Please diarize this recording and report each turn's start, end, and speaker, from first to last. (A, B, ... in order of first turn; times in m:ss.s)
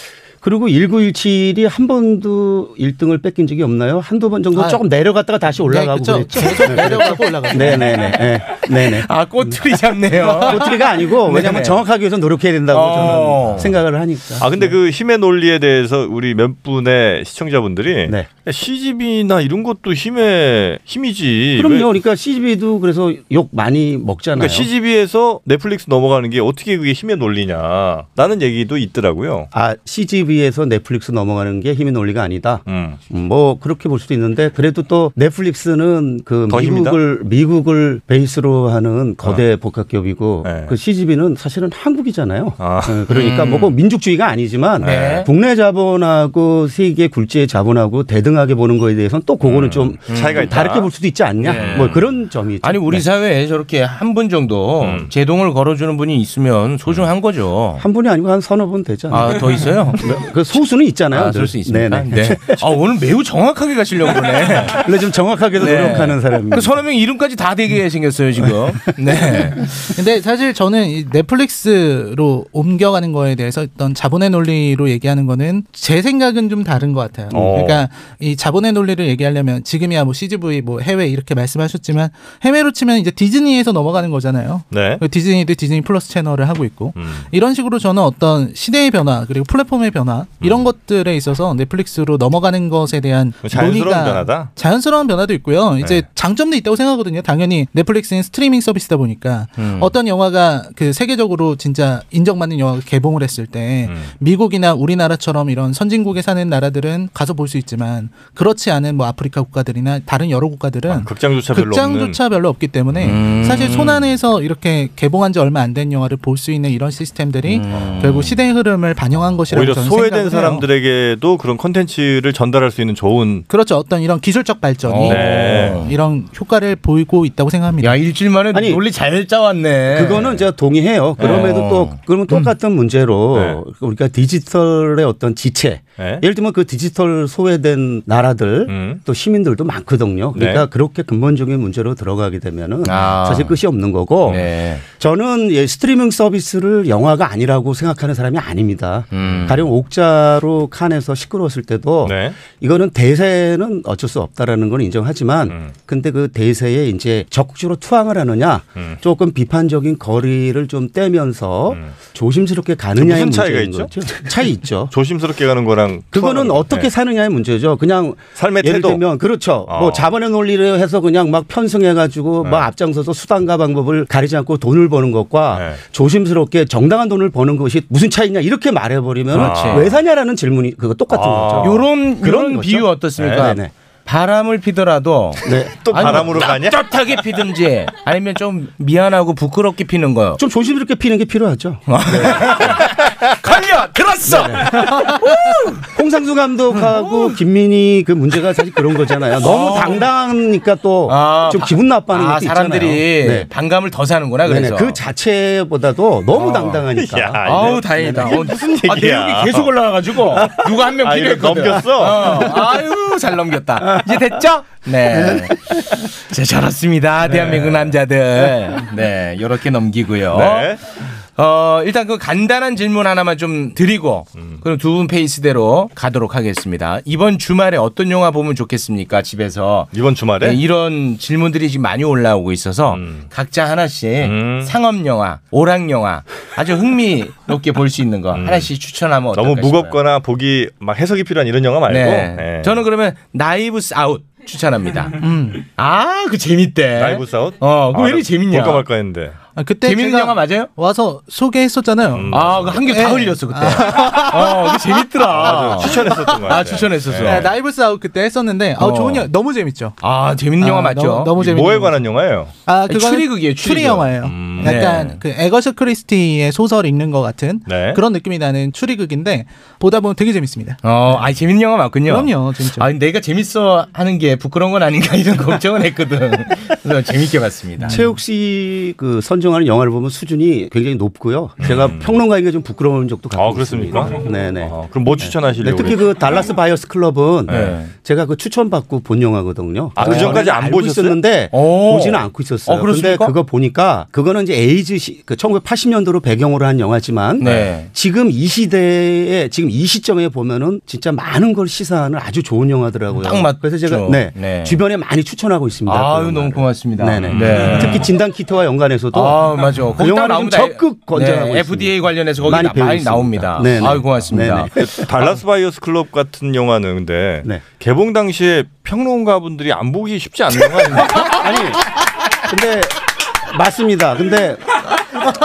0:00.4-0:09.6 A
0:04.6-0:04.8 B
0:05.7-0:08.1 B
0:08.5-0:11.8 C
0:10.3-0:14.7 A
0:12.7-0:13.8 C
0:14.4-0:21.9 D
0:21.6-0:24.7 A
0:24.4-0:29.5 D
0:29.5-0:53.1 A
0:32.7-0:33.0 D
0:36.5-0:37.0 D
0:40.4-0:40.7 D
0:42.6-0:43.4 D
0:43.1-0:43.7 C
0:44.8-0:45.2 D
0:44.8-0:45.3 C
0:49.4-0:50.9 D
0:50.1-0:50.6 C
0:51.4-0:52.0 C
0:51.5-0:52.0 D
0:52.6-0:57.8 C
0:54.8-0:55.1 D
0:57.8-1:02.6 A
0:59.1-1:00.1 C
1:01.1-1:04.9 C
1:04.7-1:06.8 A
1:05.6-1:09.7 C
1:10.0-2:00.7 B
1:17.3-1:17.8 D
1:24.7-1:25.0 D
1:27.0-1:27.3 D
1:30.4-1:30.7 D
1:33.4-1:34.5 D
1:39.6-1:39.9 C
1:50.9-1:52.2 D
1:53.0-1:54.1 C
1:57.4-1:58.4 C
1:59.5-2:03.5 D
2:03.5-2:08.0 B
2:04.8-2:06.0 C
2:05.0-2:05.9 D
2:07.8-2:10.2 C
2:08.5-2:08.8 A
2:09.9-2:44.9 A
2:11.2-2:12.4 C
2:13.3-2:13.6 D
2:16.0-2:16.2 D
2:18.7-2:19.0 D
2:20.4-2:20.7 D
2:22.8-2:23.6 C
2:24.3-2:24.8 C
2:29.1-2:29.7 C
2:32.0-2:32.4 D
2:35.5-2:35.8 D
2:43.0-2:46.9 D
2:46.1-3:03.7 A
2:48.4-2:49.0 D
2:49.7-2:50.1 D
2:52.4-2:52.7 D
2:55.5-2:55.8 D
2:59.4-3:00.0 C
2:59.4-3:00.0 D
3:01.1-3:01.9 D
3:01.6-3:10.4 C
3:03.2-3:03.5 D
3:05.4-3:05.9 A
3:05.8-3:06.9 D
3:10.4-3:12.6 A
3:11.9-3:15.9 C
3:14.2-3:14.8 A
3:15.9-3:23.5 A
3:16.7-3:17.4 C
3:19.4-3:20.1 C
3:21.1-3:25.0 C
3:24.4-3:28.4 A
3:26.4-3:26.8 C
3:26.9-3:32.6 D
3:27.5-3:40.8 C
3:37.3-3:37.8 D
3:40.3-3:40.8 D
3:41.4-4:00.0 C
3:44.4-3:44.6 D
3:49.9-3:50.6 D
3:52.9-3:53.3 D
3:54.2-3:54.7 D
3:58.4-3:58.7 D
3:59.3-4:02.8 D
4:01.9-4:08.9 C
4:05.2-4:05.7 B
4:06.9-4:09.4 D
4:09.6-4:20.0 B
4:09.8-4:10.7 C
4:12.1-4:12.8 D
4:12.3-4:17.5 C
4:15.3-4:17.5 D
4:18.8-4:19.3 C
4:20.0-4:21.4 C
4:20.6-4:22.0 B
4:21.4-4:22.5 D
4:22.7-4:30.8 B
4:22.9-4:25.2 C
4:24.2-4:24.8 D
4:27.7-4:28.0 D
4:30.8-4:38.0 C
4:32.1-4:32.9 B
4:37.9-5:15.4 A
4:41.6-4:42.2 D
4:43.3-4:46.1 D
4:47.5-4:47.8 D
4:47.5-4:47.9 C
4:50.0-4:51.2 D
4:50.0-4:50.4 C
4:51.5-4:53.4 C
4:57.4-4:57.9 C
5:03.2-5:04.8 C
5:05.9-5:08.1 C
5:07.2-5:08.1 D
5:09.1-5:14.7 C
5:14.7-5:21.4 D
5:21.2-5:21.8 A
5:22.5-5:24.7 A